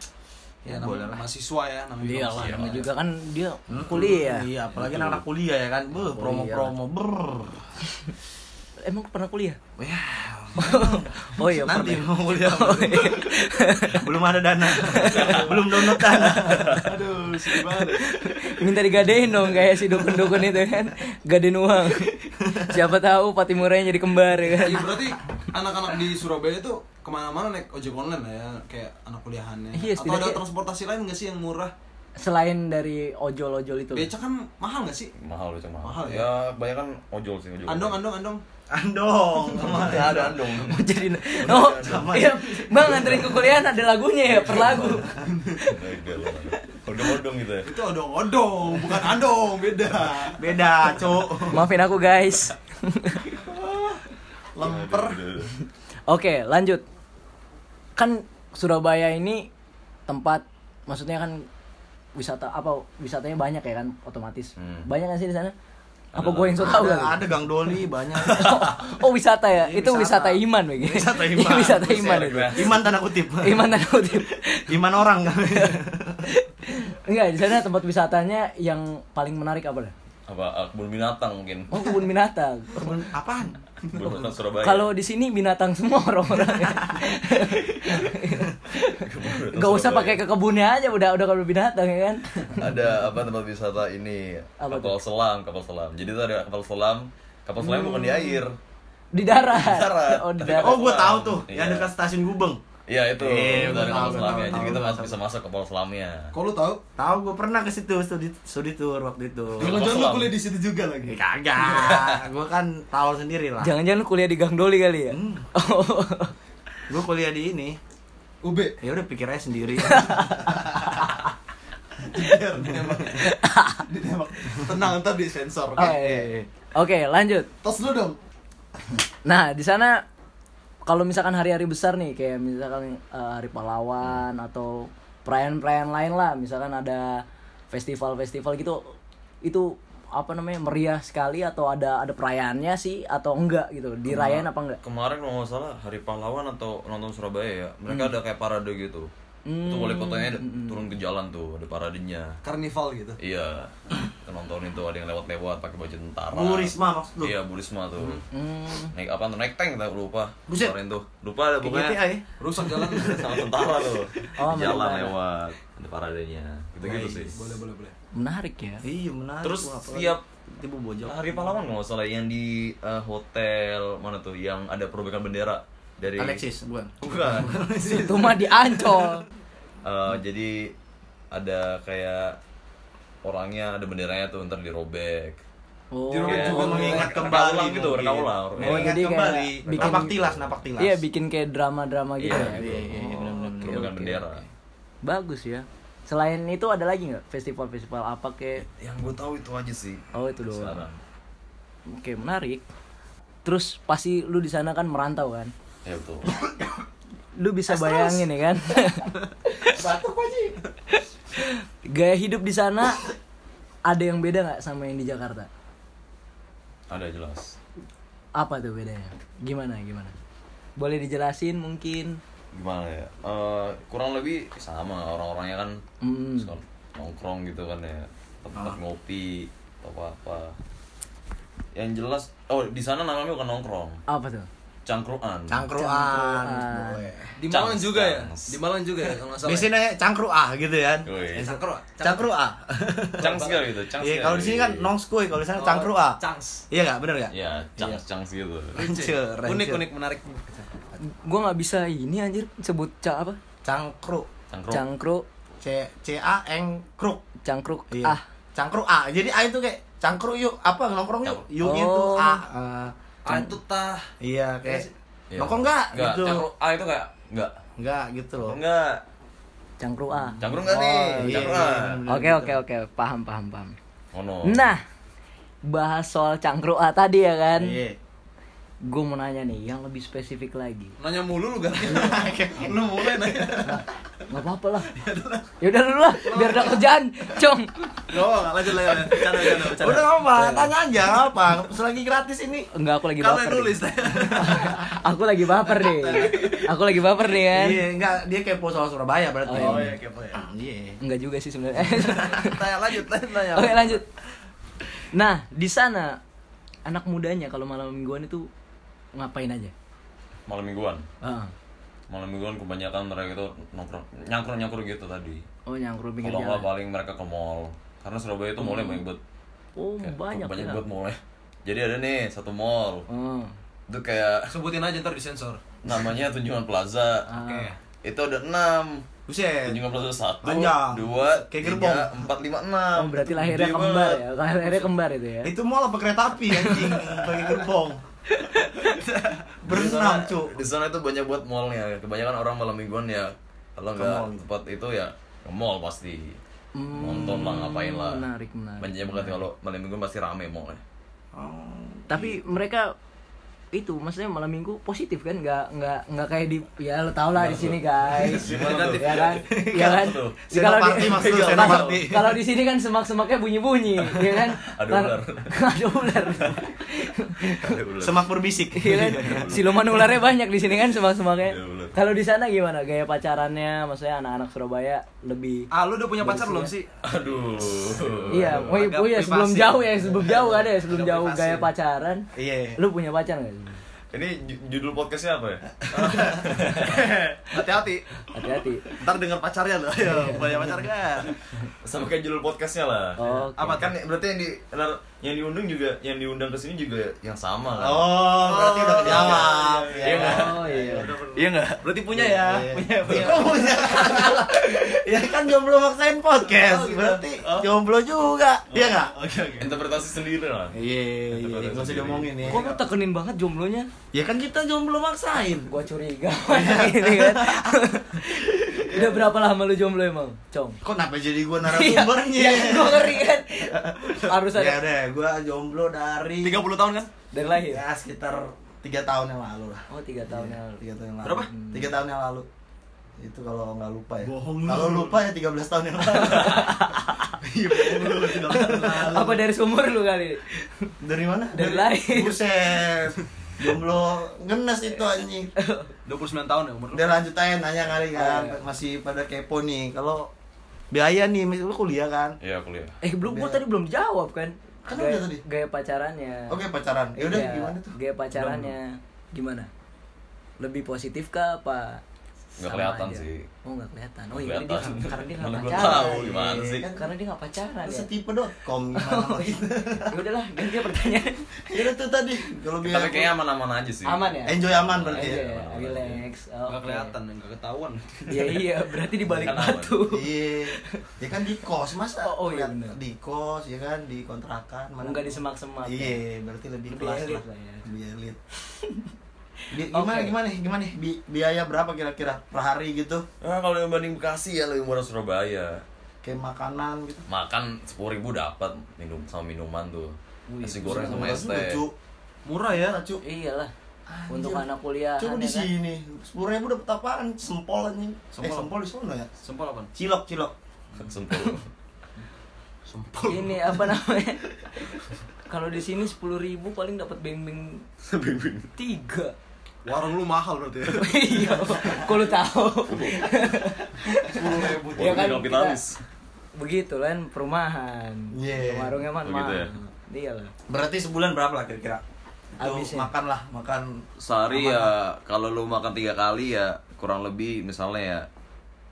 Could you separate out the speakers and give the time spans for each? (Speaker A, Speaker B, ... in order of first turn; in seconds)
Speaker A: 0.6-1.2, 3.7-7.7, 9.8-13.3, 13.9-16.9, 22.4-22.8, 38.7-40.4, 41.4-43.4, 50.2-51.7, 66.6-68.9, 69.6-73.8, 74.7-76.3, 82.7-83.6, 100.5-102.6, 103.2-105.2, 107.0-109.9, 111.1-113.7, 115.1-115.4, 116.9-117.8, 118.8-120.8, 125.8-126.5, 156.3-157.3, 160.5-160.7, 161.6-162.2, 166.9-167.2, 168.8-171.5, 176.2-179.1, 186.3-191.0, 192.3-193.9, 206.3-206.8, 207.7-208.3, 209.6-210.6, 235.5-237.4, 239.4-247.3, 248.7-249.9, 253.6-254.3, 255.6-257.2, 257.9-262.9, 264.2-266.5, 267.8-268.6, 270.4-272.6, 277.6-278.0, 281.8-283.4, 289.0-292.7, 294.2-294.7, 297.5-301.0, 329.3-329.8, 330.4-332.3, 335.4-338.0, 339.6-340.6, 343.9-344.4, 351.3-352.4, 359.3-362.4, 368.0-369.5, 382.3-382.8, 385.8-386.6, 397.8-401.4, 402.1-409.1, 410.7-412.8, 414.1-415.7, 416.5-417.8, 418.5-419.3, 420.8-426.6, 427.7-432.5, 433.2-436.9, 437.6-439.4, 441.0-445.5, 446.9-450.3, 450.9-452.4, 453.2-453.6, 454.8-455.4, 456.5-458.5, 465.7-467.1, 467.8-470.1, 471.7-473.3, 474.4-475.4, 479.4-488.4, 489.7-493.2, 496.2-497.2, 500.8-501.9, 502.7-503.2, 504.1-504.7, 505.2-509.3, 509.9-510.5, 528.3-529.0, 530.7-532.0, 532.6-534.9
Speaker B: 0.6-2.9, 15.2-18.6, 24.5-31.7, 33.9-35.1, 35.8-36.3, 37.7-38.4, 39.5-40.4, 44.6-45.6, 47.6-50.4, 53.3-54.0, 54.5-55.2, 83.8-84.3, 103.5-104.8, 106.3-106.8, 109.6-112.2, 118.4-118.8, 120.5-121.0, 122.0-126.0, 127.6-128.2, 152.4-153.2, 162.4-163.4, 166.9-167.9, 186.1-187.2, 237.4-239.7, 241.3-242.3, 243.2-243.7, 245.5-246.6, 248.8-250.7, 263.2-264.1, 264.6-264.9, 281.0-283.8, 284.9-285.5, 286.1-286.8, 288.1-290.1, 293.2-295.0, 295.6-296.7, 299.5-300.4, 302.0-304.0, 324.5-325.6, 327.3-327.8, 358.3-359.2, 375.7-376.9, 377.9-381.7, 385.9-388.1, 388.9-391.4, 393.2-393.9, 398.5-400.1, 401.4-404.4, 406.5-407.7, 408.8-409.7, 426.4-427.1, 431.2-431.5, 434.2-435.2, 437.4-439.1, 446.0-447.2, 476.7-478.6, 502.4-503.0, 508.4-508.7, 509.4-509.9, 512.9-513.9, 519.8-522.0, 524.3-525.4
Speaker C: 2.0-4.5, 6.1-6.7, 8.8-9.6, 10.6-14.1, 14.8-15.4, 17.7-25.0, 29.7-30.4, 32.2-34.1, 40.5-45.8, 51.4-53.2, 55.6-56.8, 58.0-59.5, 60.1-61.5, 62.1-65.5, 66.1-67.3, 68.2-72.7, 73.4-79.9, 81.7-83.0, 84.6-92.6, 94.6-95.0, 97.6-98.4, 99.1-100.8, 113.6-116.3, 119.8-120.5, 123.1-123.9, 125.8-127.5, 129.2-130.0, 130.8-144.8, 147.9-148.2, 149.4-150.8, 158.3-158.9, 164.4-165.1, 168.1-168.8, 177.8-179.2, 185.9-186.9, 188.6-190.1, 190.8-193.1, 193.6-194.3, 195.0-198.6, 200.1-200.9, 201.9-202.6, 203.4-205.5, 207.3-209.1, 210.9-213.0, 213.8-215.5, 218.3-220.1, 220.8-222.2, 226.0-226.5, 234.1-234.5, 235.7-237.0, 251.0-253.4, 254.7-255.2, 257.4-258.2, 261.6-262.4, 263.3-263.5, 269.8-273.7, 274.4-274.8, 275.6-277.8, 278.8-280.9, 283.6-284.9, 285.6-287.9, 290.3-290.7, 292.7-297.8, 299.4-299.9, 301.0-302.6, 303.5-304.0, 305.1-306.2, 306.9-308.5, 309.1-309.7, 311.2-311.5, 315.6-316.7, 318.6-319.0, 319.8-320.8, 323.1-323.5, 327.3-327.7, 332.9-335.5, 336.5-337.4, 338.3-339.0, 346.7-349.4, 352.1-352.9, 353.7-367.8, 368.7-375.7, 376.2-376.7, 378.3-383.8, 388.3-388.9, 390.0-390.4, 393.2-393.9, 400.1-401.1, 403.0-403.6, 412.5-413.9, 415.7-420.8, 421.6-424.8, 427.3-427.8, 429.9-430.8, 431.5-431.9, 436.1-437.3, 438.0-440.9, 441.5-442.4, 445.5-445.9, 448.1-448.6, 453.0-456.6, 457.2-459.7, 460.6-462.0, 462.6-468.1, 468.9-471.4, 474.0-477.1, 478.3-480.9, 482.2-483.0, 485.0-486.2, 486.9-487.9, 488.7-489.0, 489.8-490.3, 500.5-501.4, 503.2-503.7, 504.3-505.7, 513.3-517.8, 518.8-519.3, 520.9-525.8, 526.5-530.5, 532.6-533.1
Speaker D: 2.3-2.8, 4.7-5.2, 15.0-15.7, 16.4-16.9, 35.2-38.0, 39.6-42.1, 42.8-43.3, 44.4-45.0, 45.6-47.7, 54.6-55.5, 64.6-64.9, 66.1-66.7, 72.0-72.8, 80.3-81.7, 83.9-84.9, 89.0-90.2, 92.5-98.6, 99.3-101.9, 102.9-106.3, 109.6-110.3, 144.1-149.1, 149.6-152.4, 153.2-158.2, 158.9-162.0, 162.8-167.4, 169.4-170.2, 171.0-176.4, 177.0-177.5, 179.8-180.7, 181.3-182.4, 183.2-185.4, 186.2-188.9, 189.8-190.4, 192.2-194.4, 198.7-201.0, 205.8-206.3, 216.9-217.6, 222.5-225.8, 226.4-230.5, 231.7-234.0, 234.8-235.7, 237.5-238.6, 241.0-241.5, 243.2-244.9, 247.3-248.8, 254.5-254.8, 265.3-267.6, 268.4-269.0, 270.4-272.0, 274.1-274.7, 310.5-311.0, 312.1-315.4, 316.2-319.2, 320.0-323.1, 323.9-324.5, 325.8-327.3, 328.0-329.1, 329.6-334.2, 339.7-346.4, 346.9-348.2, 348.8-350.8, 357.4-362.1, 364.6-365.5, 367.6-368.3, 368.9-370.1, 371.4-371.9, 377.0-378.8, 384.1-387.2, 391.8-401.9, 409.5-410.8, 411.3-412.6, 452.4-452.9, 462.6-463.5, 464.3-466.9, 472.8-476.2, 479.3-480.0, 493.4-495.8, 497.3-501.8, 511.0-511.7, 518.0-518.7, 522.9-523.3, 524.9-526.0, 529.2-529.7, 534.2-538.3